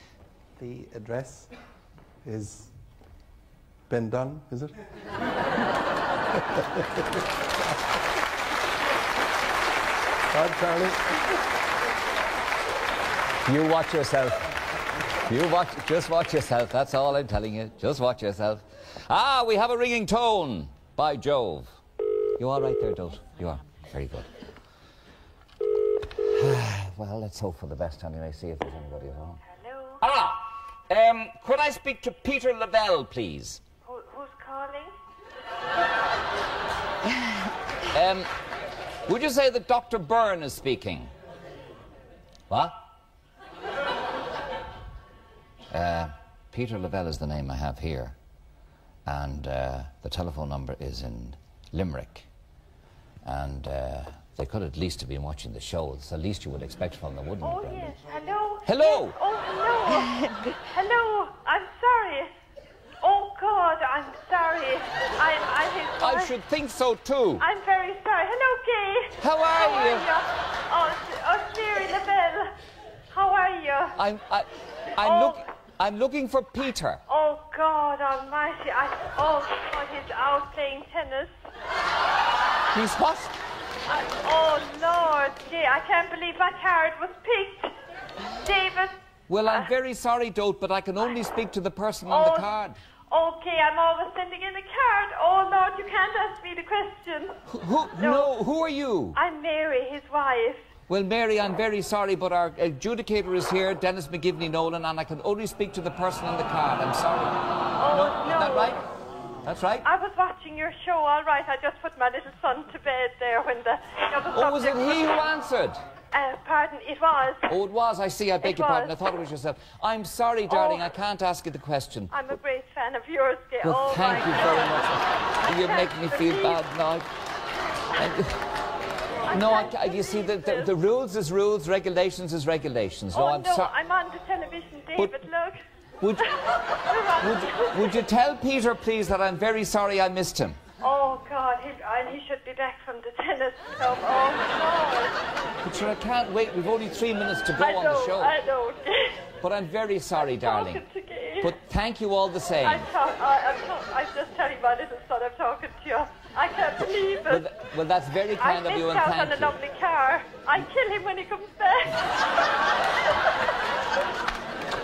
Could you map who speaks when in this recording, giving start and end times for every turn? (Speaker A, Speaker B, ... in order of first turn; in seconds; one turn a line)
Speaker A: 0.6-1.5
Speaker A: 2.2-2.7
Speaker A: 3.9-4.8
Speaker A: 10.3-11.2
Speaker B: 13.4-14.6
Speaker B: 15.2-21.7
Speaker B: 22.4-24.3
Speaker B: 26.0-29.4
Speaker C: 29.5-30.0
Speaker B: 30.0-33.6
Speaker C: 33.8-35.0
Speaker B: 37.0-38.3
Speaker B: 39.0-41.1
Speaker B: 42.5-42.8
Speaker B: 45.7-48.1
Speaker B: 49.0-52.3
Speaker B: 53.2-58.0
Speaker C: 57.4-62.3
Speaker B: 58.6-59.2
Speaker C: 63.0-66.3
Speaker B: 66.0-67.5
Speaker C: 67.4-72.6
Speaker B: 69.2-70.1
Speaker C: 73.1-74.0
Speaker B: 74.0-77.0
Speaker C: 75.0-75.4
Speaker C: 77.1-81.3
Speaker B: 82.7-83.4
Speaker C: 83.9-87.7
Speaker C: 88.3-89.7
Speaker B: 89.3-92.8
Speaker C: 92.1-92.5
Speaker C: 93.1-97.4
Speaker B: 97.5-99.2
Speaker C: 98.0-98.4
Speaker C: 99.2-100.6
Speaker B: 100.9-107.4
Speaker C: 107.8-108.8
Speaker B: 107.9-108.8
Speaker B: 109.4-109.9
Speaker C: 109.8-115.3
Speaker B: 114.3-115.8
Speaker C: 116.1-117.5
Speaker B: 117.5-122.2
Speaker C: 118.4-119.0
Speaker C: 120.5-120.9
Speaker C: 122.1-124.9
Speaker B: 123.6-127.1
Speaker C: 125.5-126.6
Speaker B: 127.9-128.4
Speaker C: 129.2-130.7
Speaker B: 129.3-133.7
Speaker C: 133.1-135.6
Speaker B: 136.0-136.3
Speaker C: 136.2-138.1
Speaker B: 137.2-140.6
Speaker C: 140.8-145.2
Speaker B: 145.6-148.4
Speaker C: 147.6-149.3
Speaker B: 149.4-150.8
Speaker C: 150.2-151.5
Speaker B: 151.4-152.9
Speaker C: 152.6-157.5
Speaker B: 157.3-159.6
Speaker C: 158.4-162.3